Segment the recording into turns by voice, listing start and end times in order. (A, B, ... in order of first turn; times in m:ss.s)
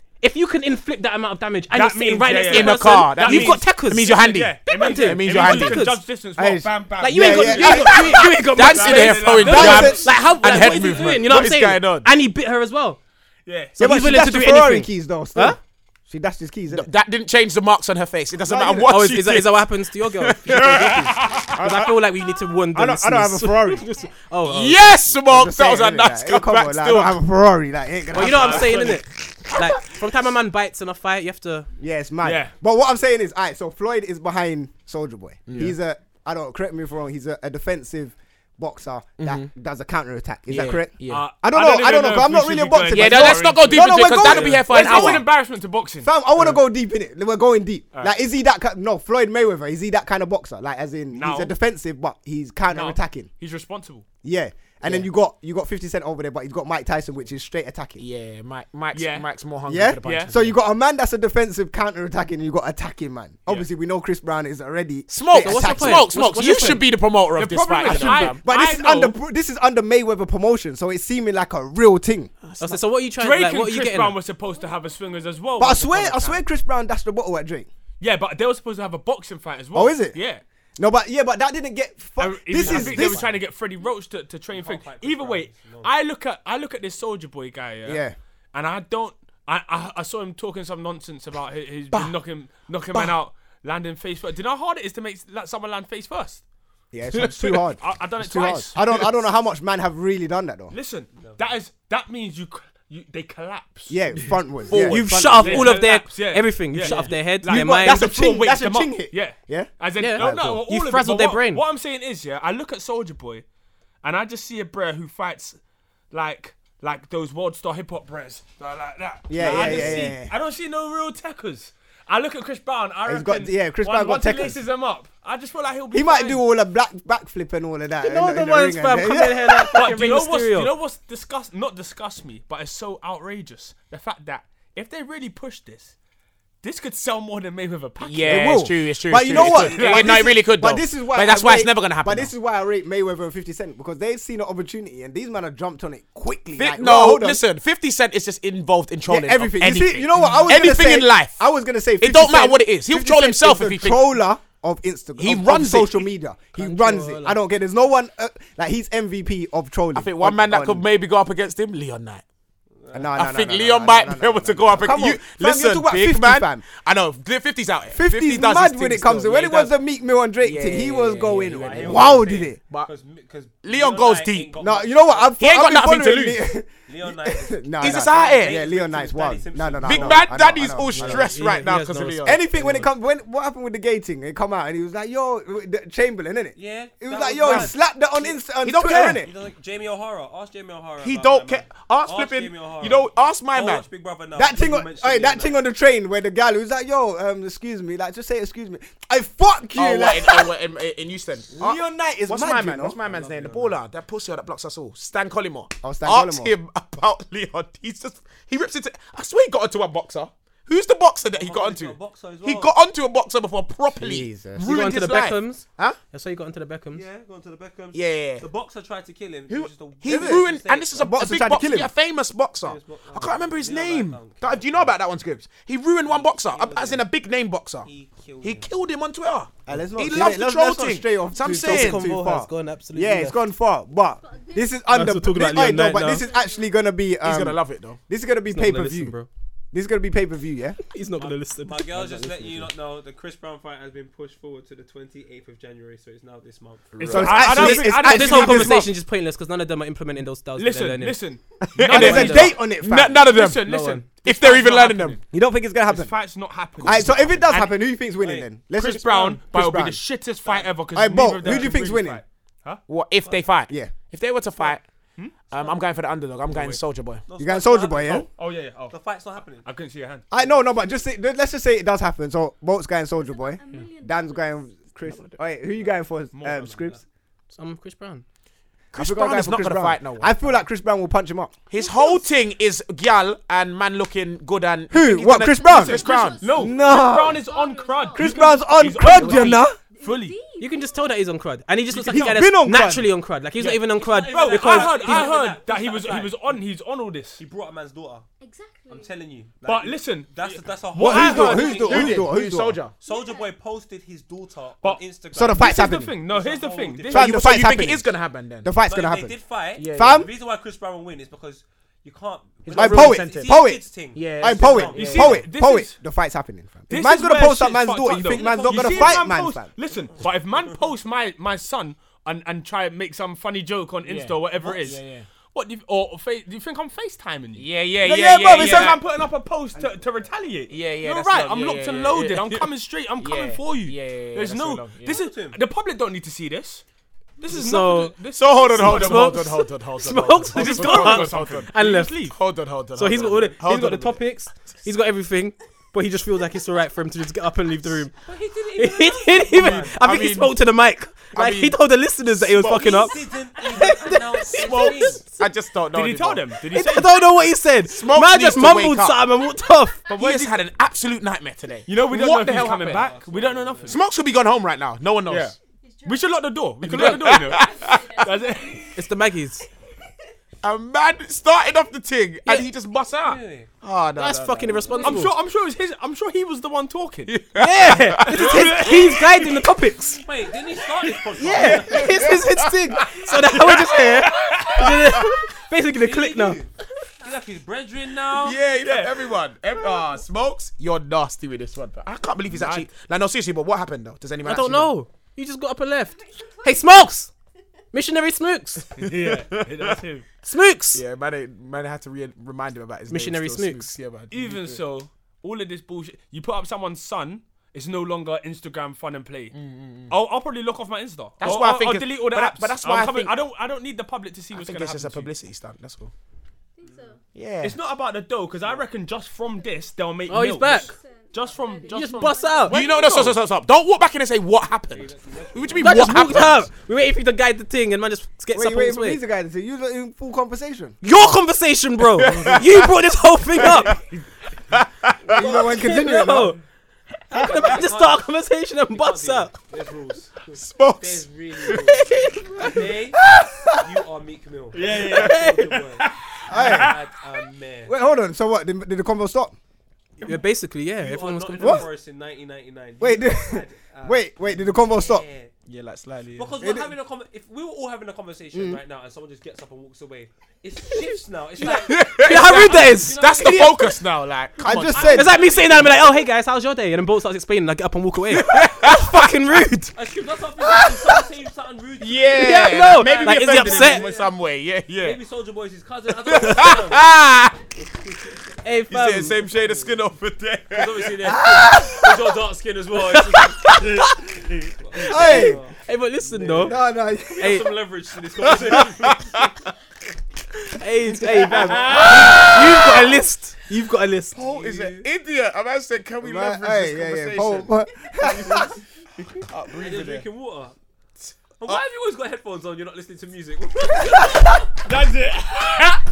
0:00.2-0:06.0 A
0:01.7-0:10.1 B
0:02.2-0:05.9 C
0:06.4-0:08.1 D
0:07.0-0:13.0 A
0:07.4-0:12.1 C
0:09.4-0:10.1 D
0:13.4-0:13.8 B
0:13.8-0:15.6 A
0:13.8-0:16.9 D
0:16.7-0:21.1 C
0:18.4-0:19.0 D
0:18.9-0:24.8 A
0:21.1-0:21.5 B
0:22.7-0:23.8 D
0:24.4-0:27.2 C
0:25.2-0:29.0 D
0:28.1-0:31.7 A
0:28.2-0:29.0 B
0:31.8-0:45.3 D
0:32.2-0:32.5 B
0:35.5-0:35.7 C
0:39.2-0:39.5 C
0:40.5-0:41.3 C
0:41.1-0:46.1 B
0:42.9-0:45.3 C
0:46.0-0:53.3 D
0:51.1-0:51.5 B
0:52.7-0:54.1 B
0:54.2-0:58.0 D
0:54.8-0:55.1 C
0:58.0-1:00.5 C
0:58.9-0:59.3 B
0:59.7-1:06.1 D
1:00.0-1:00.3 B
1:05.1-1:08.4 C
1:05.4-1:06.8 A
1:07.3-1:09.2 B
1:07.8-1:12.3 D
1:12.4-1:12.8 C
1:12.6-1:14.2 A
1:13.2-1:16.4 B
1:15.6-1:17.7 D
1:18.0-1:20.4 B
1:19.7-1:20.2 D
1:20.8-1:23.3 D
1:22.2-1:36.4 B
1:22.6-1:23.1 C
1:22.8-1:23.2 E
1:24.5-1:25.9 E
1:27.8-1:28.2 D
1:36.9-1:40.7 D
1:37.2-1:37.6 C
1:37.8-1:39.1 B
1:40.7-1:44.0 B
1:41.1-1:41.4 E
1:43.9-1:45.7 D
1:44.7-1:53.4 B
1:44.7-1:45.3 C
1:44.7-1:48.0 A
1:47.4-1:50.6 D
1:50.0-1:51.6 A
1:54.0-1:55.6 B
1:56.1-2:06.4 B
1:59.3-2:00.3 D
1:59.4-2:00.0 C
2:03.0-2:04.6 D
2:05.9-2:09.8 D
2:08.0-2:10.7 A
2:09.6-2:15.9 B
2:16.6-2:18.6 B
2:18.0-2:22.3 C
2:18.2-2:27.4 D
2:19.3-2:20.2 B
2:26.6-2:31.4 C
2:29.1-2:40.8 D
2:32.0-2:34.2 C
2:35.2-2:36.1 C
2:36.6-2:37.4 A
2:39.9-2:42.2 C
2:42.8-2:43.2 E
2:42.9-2:46.6 D
2:43.1-2:49.7 C
2:47.9-2:52.6 D
2:50.4-2:52.9 C
2:51.5-2:55.4 E
2:53.6-2:54.5 C
2:54.6-3:01.4 D
2:55.4-2:56.4 C
2:56.9-3:00.4 E
2:57.8-2:58.6 C
2:59.8-3:02.8 C
3:01.0-3:02.8 A
3:02.2-3:09.3 D
3:06.6-3:08.4 E
3:08.6-3:09.2 C
3:08.9-3:15.6 E
3:11.0-3:13.8 C
3:14.4-3:20.5 D
3:19.8-3:36.0 C
3:21.6-3:23.0 D
3:23.0-3:23.8 E
3:25.8-3:26.5 D
3:31.3-3:32.7 E
3:34.0-3:34.6 D
3:34.6-3:37.0 A
3:36.9-3:41.1 E
3:37.9-3:38.4 C
3:39.5-3:47.9 C
3:40.1-3:40.4 D
3:41.0-3:41.9 D
3:42.6-3:44.9 E
3:46.1-3:47.1 E
3:47.8-3:48.7 E
3:48.4-3:52.1 C
3:49.7-3:59.2 D
3:51.4-3:53.4 A
3:54.2-3:56.8 F
3:54.9-3:56.2 A
3:57.2-3:58.0 C
3:58.5-3:59.3 A
3:59.7-4:00.8 D
4:00.9-4:02.0 A
4:01.2-4:07.4 E
4:02.1-4:02.6 C
4:06.9-4:07.5 C
4:07.0-4:08.8 B
4:07.1-4:08.9 D
4:07.5-4:11.2 A
4:10.6-4:15.2 B
4:11.7-4:15.2 C
4:11.8-4:13.2 D
4:11.9-4:12.5 A
4:13.6-4:14.0 A
4:15.3-4:16.1 D
4:15.8-4:17.8 B
4:16.8-4:20.0 D
4:16.8-4:17.2 C
4:18.2-4:18.5 E
4:18.7-4:22.8 B
4:20.4-4:20.8 E
4:20.9-4:22.2 D
4:22.9-4:24.8 C
4:23.2-4:23.5 E
4:23.7-4:23.9 D
4:25.2-4:25.4 B
4:25.5-4:27.2 C
4:26.5-4:26.8 B
4:27.3-4:28.3 E
4:27.4-4:28.3 D
4:28.0-4:29.0 B
4:28.9-4:29.6 E
4:29.6-4:30.2 B
4:30.3-4:37.0 D
4:33.2-4:34.8 F
4:35.1-4:35.4 C
4:36.3-4:36.9 B
4:36.5-4:37.0 E
4:37.5-4:38.2 A
4:38.9-4:40.5 C
4:38.9-4:41.5 D
4:41.7-4:46.5 C
4:41.7-4:42.3 F
4:44.9-4:47.4 D
4:45.6-4:49.0 F
4:46.4-4:50.4 B
4:48.1-4:49.8 D
4:49.0-4:49.6 C
4:49.8-4:51.2 F
4:50.6-4:55.2 A
4:51.9-4:53.1 D
4:53.6-4:57.4 B
4:53.9-4:56.6 E
4:57.4-4:58.2 E
4:58.4-4:59.2 F
4:58.9-5:02.3 E
4:59.6-5:02.2 B
5:01.0-5:02.8 D
5:01.1-5:02.9 C
5:03.0-5:07.4 E
5:03.0-5:03.6 F
5:04.8-5:07.4 B
5:05.3-5:06.2 D
5:07.1-5:08.1 D
5:07.1-5:08.7 C
5:08.6-5:09.4 D
5:08.8-5:15.3 E
5:09.8-5:10.3 C
5:09.9-5:10.3 D
5:12.6-5:15.4 C
5:12.7-5:13.8 D
5:14.4-5:19.7 D
5:14.9-5:16.0 B
5:16.9-5:36.8 B
5:18.1-5:19.3 E
5:20.2-5:20.6 E
5:24.0-5:25.3 C
5:27.6-5:29.0 C
5:28.0-5:29.0 D
5:30.7-5:35.2 C
5:35.0-5:35.6 E
5:37.4-5:39.6 B
5:37.5-5:38.2 A
5:38.3-5:44.2 C
5:38.8-5:42.3 A
5:40.5-5:42.4 B
5:42.9-5:48.1 A
5:48.2-5:49.9 E
5:48.7-5:55.2 A
5:49.6-5:50.6 C
5:49.6-5:49.9 B
5:51.3-5:51.8 C
5:52.4-5:53.1 C
5:52.6-5:55.2 E
5:54.4-5:56.5 C
5:55.9-5:57.2 B
5:56.7-6:00.0 A
5:57.9-5:59.2 C
6:00.1-6:00.6 B
6:00.1-6:03.1 C
6:01.9-6:04.0 B
6:02.4-6:04.0 E
6:03.8-6:05.5 C
6:05.3-6:08.9 B
6:05.8-6:06.4 F
6:06.8-6:08.3 C
6:07.5-6:08.9 F
6:08.9-6:09.6 A
6:10.6-6:15.1 C
6:13.2-6:13.7 E
6:14.1-6:15.3 A
6:15.0-6:17.3 B
6:17.3-6:18.6 C
6:17.6-6:20.2 A
6:18.3-6:19.7 B
6:20.2-6:22.2 E
6:21.4-6:26.6 A
6:21.4-6:24.0 C
6:24.2-6:24.8 B
6:25.9-6:26.7 E
6:27.2-6:28.7 E
6:28.3-6:34.9 C
6:28.7-6:29.3 B
6:32.5-6:32.9 B
6:34.4-6:37.3 A
6:37.9-6:38.9 A
6:39.0-6:40.0 C
6:39.0-6:40.2 B
6:40.4-6:41.0 A
6:40.9-6:44.8 C
6:43.1-6:43.9 A
6:44.3-6:49.5 B
6:49.5-6:50.1 C
6:50.1-6:55.3 B
6:51.4-6:53.4 C
6:54.5-6:56.1 C
6:56.8-6:57.2 F
6:56.8-6:57.1 E
6:57.3-6:57.8 C
6:57.6-7:02.4 B
6:59.5-6:59.8 F
7:00.3-7:00.9 A
7:00.6-7:03.3 F
7:01.9-7:02.8 A
7:02.7-7:06.7 C
7:04.9-7:06.6 E
7:05.8-7:09.2 A
7:08.5-7:11.0 D
7:11.0-7:14.0 A
7:12.2-7:12.9 C
7:13.6-7:14.0 C
7:14.7-7:15.2 C
7:15.3-7:15.8 E
7:15.3-7:16.6 D
7:15.6-7:16.6 A
7:17.3-7:19.5 A
7:17.3-7:18.3 E
7:18.9-7:22.1 E
7:20.5-7:21.9 C
7:21.9-7:22.5 A
7:22.6-7:27.9 E
7:24.7-7:25.4 B
7:25.1-7:25.6 A
7:26.5-7:27.0 D
7:26.5-7:27.0 B
7:27.9-7:29.5 D
7:30.2-7:31.9 A
7:31.0-7:35.5 E
7:31.6-7:31.9 D
7:33.0-7:35.2 D
7:35.7-7:36.5 C
7:36.3-7:43.9 E
7:36.6-7:36.9 D
7:38.5-7:38.8 D
7:41.6-7:45.2 C
7:42.0-7:43.2 A
7:44.6-7:45.3 D
7:44.9-7:45.8 B
7:45.1-7:49.9 A
7:45.3-7:45.7 E
7:48.3-7:49.1 C
7:49.9-7:54.3 E
7:52.0-7:55.2 C
7:52.3-7:54.0 A
7:54.9-7:57.1 E
7:56.1-7:57.6 C
7:57.8-7:58.4 E
7:58.6-7:59.4 A
7:58.9-8:01.2 C
7:59.5-7:59.9 E
8:00.7-8:04.1 E
8:01.3-8:01.9 D
8:03.1-8:04.2 A
8:04.7-8:09.5 E
8:05.0-8:05.6 D
8:05.1-8:06.8 A
8:06.6-8:07.6 D
8:07.4-8:07.7 A
8:08.4-8:09.5 C
8:10.7-8:14.4 A
8:11.6-8:12.5 E
8:11.6-8:13.0 C
8:14.3-8:18.7 C
8:14.4-8:15.1 E
8:16.2-8:18.7 D
8:19.4-8:20.2 C
8:19.7-8:20.7 E
8:21.2-8:21.8 C
8:21.6-8:24.7 E
8:24.8-8:26.0 B